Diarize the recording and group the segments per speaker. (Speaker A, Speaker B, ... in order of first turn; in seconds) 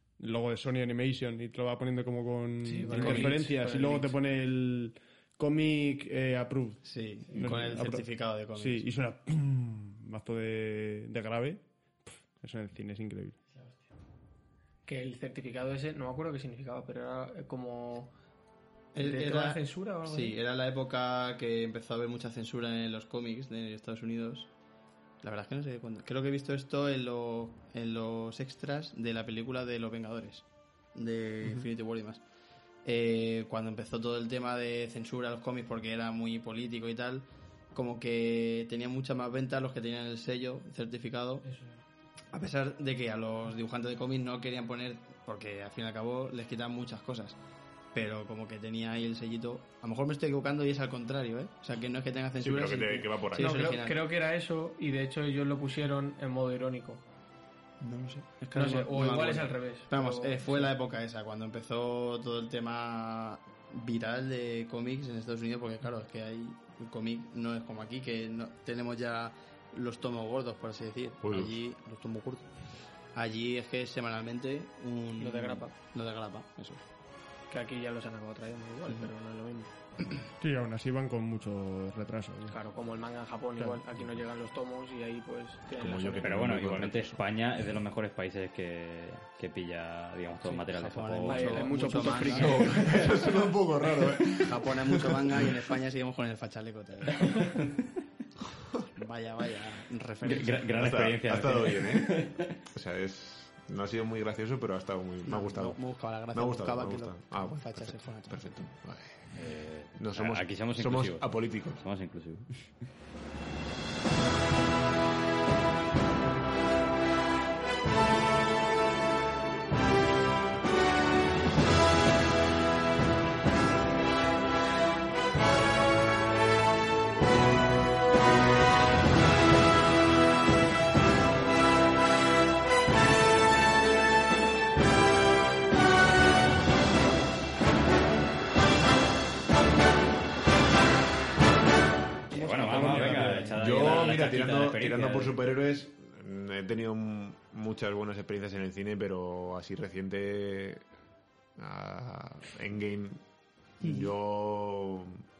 Speaker A: 0.2-13.4, 80.4-82.6, 142.3-143.9
Speaker B: 2.6-4.1, 14.9-18.1, 19.0-20.4, 41.4-41.8, 53.4-57.0, 58.5-60.7, 75.2-75.7, 77.5-79.7, 82.5-86.4, 91.2-93.0
Speaker C: 3.0-3.3, 6.8-8.9, 18.9-24.5, 25.2-32.2, 32.9-41.5, 42.3-47.4, 47.9-54.0, 57.8-72.5, 73.1-76.8, 90.4-93.0, 94.4-97.4, 99.0-100.7, 105.2-108.4
Speaker D: 52.4-53.5, 71.2-71.5, 85.7-87.2, 92.6-95.5, 100.8-105.8, 106.3-109.3, 110.0-111.8, 142.7-150.8, 151.6-153.2, 153.8-155.2
Speaker E: 86.2-91.7, 92.4-93.0, 97.2-97.8, 100.2-102.5, 109.3-112.6, 142.3-145.3